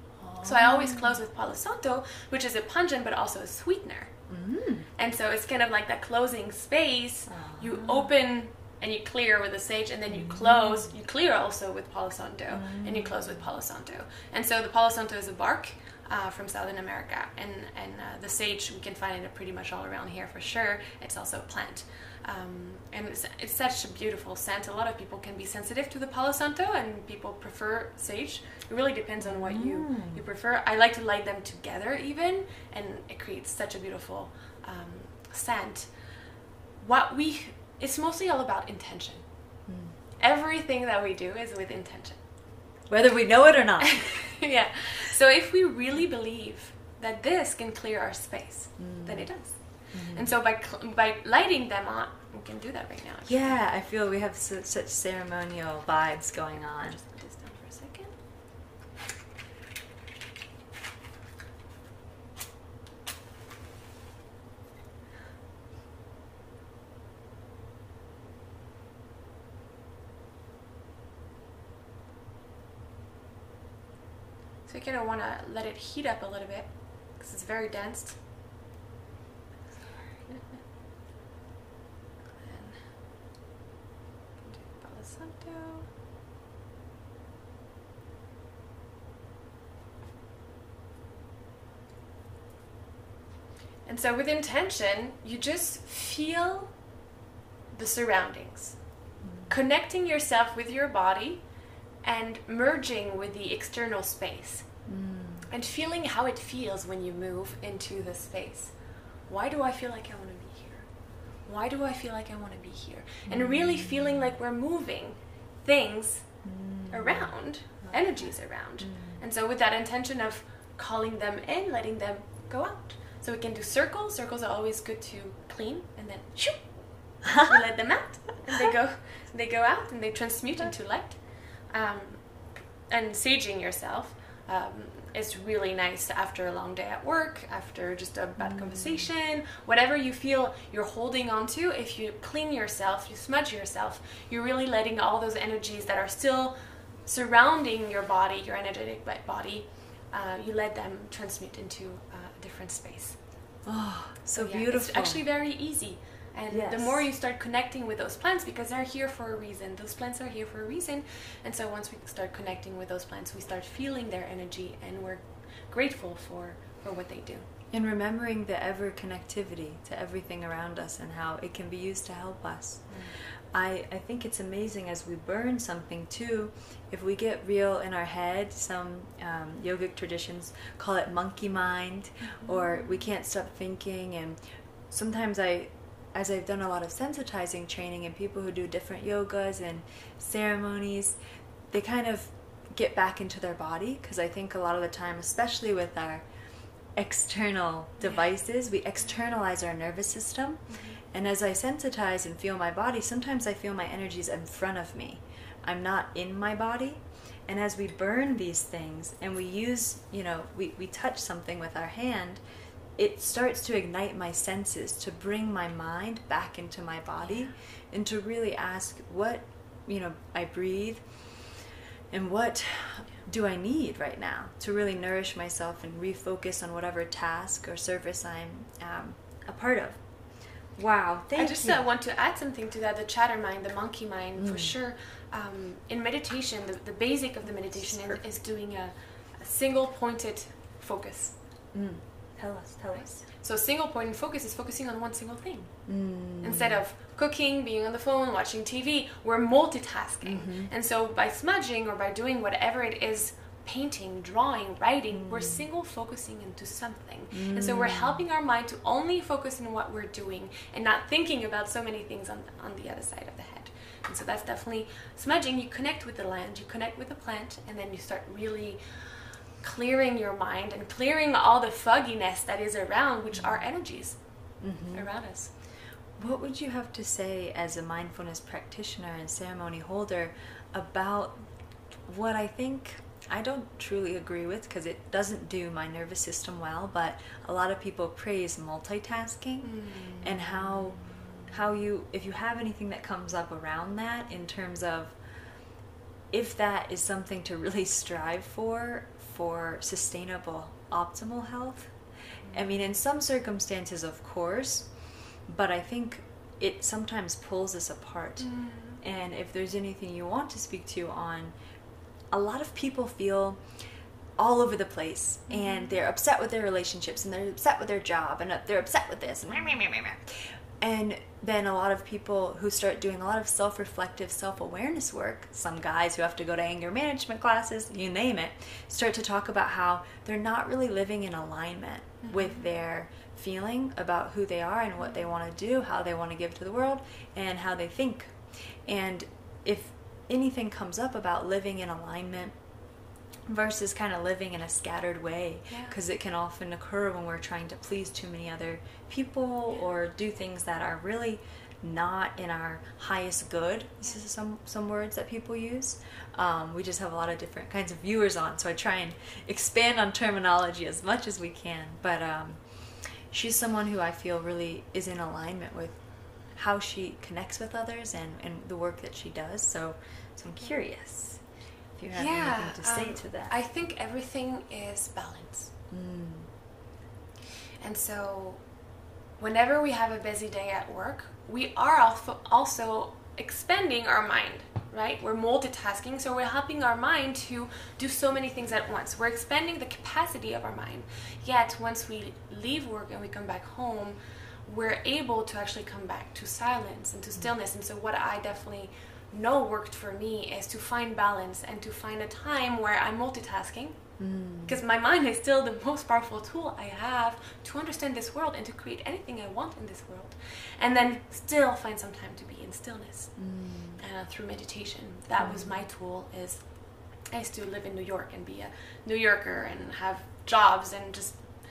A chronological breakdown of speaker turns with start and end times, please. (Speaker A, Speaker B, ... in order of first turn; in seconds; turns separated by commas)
Speaker A: 0.2-1.2, Speaker B: 0.4-4.1, Speaker A: 4.3-4.9, Speaker B: 5.0-35.9, Speaker A: 7.3-8.1, Speaker A: 10.1-10.9, Speaker A: 12.5-13.4, Speaker A: 29.2-30.2, Speaker B: 36.8-39.2, Speaker A: 39.7-40.0, Speaker B: 40.2-42.2, Speaker A: 42.9-44.3, Speaker B: 43.8-53.6, Speaker A: 48.8-49.3, Speaker A: 49.9-50.3, Speaker A: 53.2-57.0, Speaker B: 56.7-58.1, Speaker B: 74.7-78.2, Speaker B: 79.8-80.4, Speaker B: 82.4-82.8, Speaker B: 84.4-85.9, Speaker B: 93.8-96.7, Speaker B: 97.7-98.8, Speaker A: 99.2-99.6, Speaker B: 99.5-101.4, Speaker B: 102.0-104.7, Speaker A: 104.9-105.5, Speaker B: 105.5-108.7, Speaker B: 109.3-110.9, Speaker B: 111.4-116.3, Speaker A: 113.2-114.3, Speaker A: 116.4-118.0, Speaker B: 116.9-132.2, Speaker A: 118.8-119.2, Speaker B: 132.9-153.2, Speaker A: 138.4-139.1, Speaker A: 153.6-155.2, Speaker B: 154.3-167.5, Speaker A: 156.5-157.1, Speaker A: 167.7-191.2, Speaker B: 172.9-173.1, Speaker B: 182.2-183.0, Speaker A: 191.7-196.2, Speaker A: 196.9-212.4, Speaker B: 198.0-198.3, Speaker B: 200.7-201.0, Speaker A: 213.0-221.5, Speaker B: 217.2-217.5, Speaker A: 222.1-230.0, Speaker A: 230.8-231.8, Speaker B: 231.3-241.4, Speaker A: 234.3-234.7, Speaker A: 237.6-238.2, Speaker A: 241.7-243.2, Speaker B: 242.9-245.8, Speaker A: 245.9-246.8, Speaker B: 246.4-268.8, Speaker A: 250.2-250.7, Speaker A: 255.1-255.6, Speaker A: 257.3-258.2, Speaker B: 269.6-274.2, Speaker A: 274.6-275.1, Speaker B: 274.9-275.5, Speaker A: 276.2-281.4, Speaker A: 282.1-295.1, Speaker B: 289.6-290.3, Speaker A: 296.3-301.9, Speaker B: 302.4-302.9, Speaker A: 302.5-304.9, Speaker A: 305.4-311.5, Speaker B: 308.4-309.0, Speaker A: 312.3-313.6, Speaker A: 314.4-342.6, Speaker B: 315.5-315.9, Speaker B: 332.2-332.7, Speaker A: 343.4-366.0, Speaker B: 345.7-345.9, Speaker A: 366.5-371.4, Speaker A: 372.0-373.5, Speaker B: 372.1-375.7, Speaker A: 375.9-376.5, Speaker B: 377.8-378.6, Speaker B: 379.4-404.1, Speaker A: 404.2-404.8, Speaker B: 404.6-413.4, Speaker A: 413.4-414.0, Speaker B: 414.0-416.6, Speaker A: 415.4-415.8, Speaker B: 417.3-421.5